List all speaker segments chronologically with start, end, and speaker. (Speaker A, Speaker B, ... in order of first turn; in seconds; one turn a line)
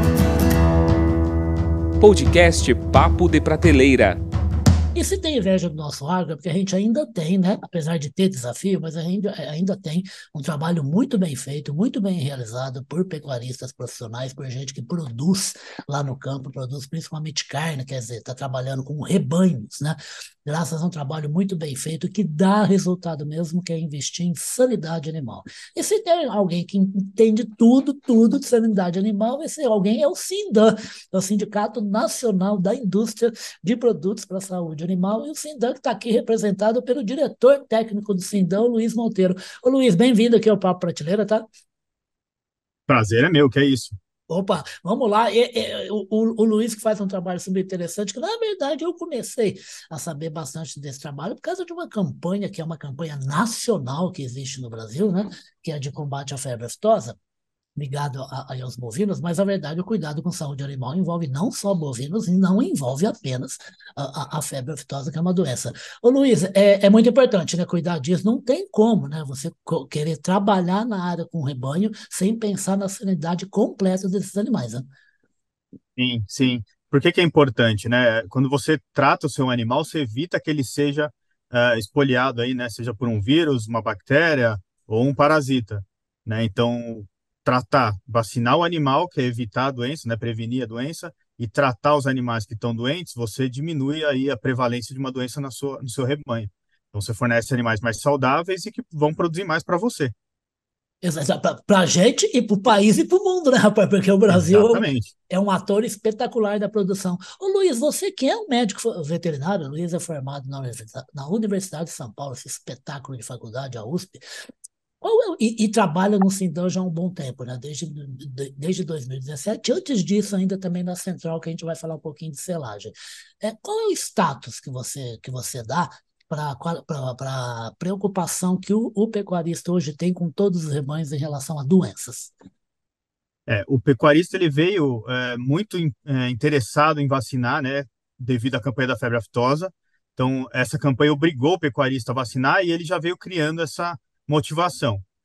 Speaker A: 2.0-4.2
Speaker B: 5.0-41.5
Speaker C: 42.9-44.0
Speaker B: 44.3-57.2
Speaker B: 57.8-74.9
Speaker C: 76.0-100.1
Speaker B: 101.0-114.2
Speaker C: 104.3-105.1
Speaker B: 115.0-132.3
Speaker C: 133.5-145.0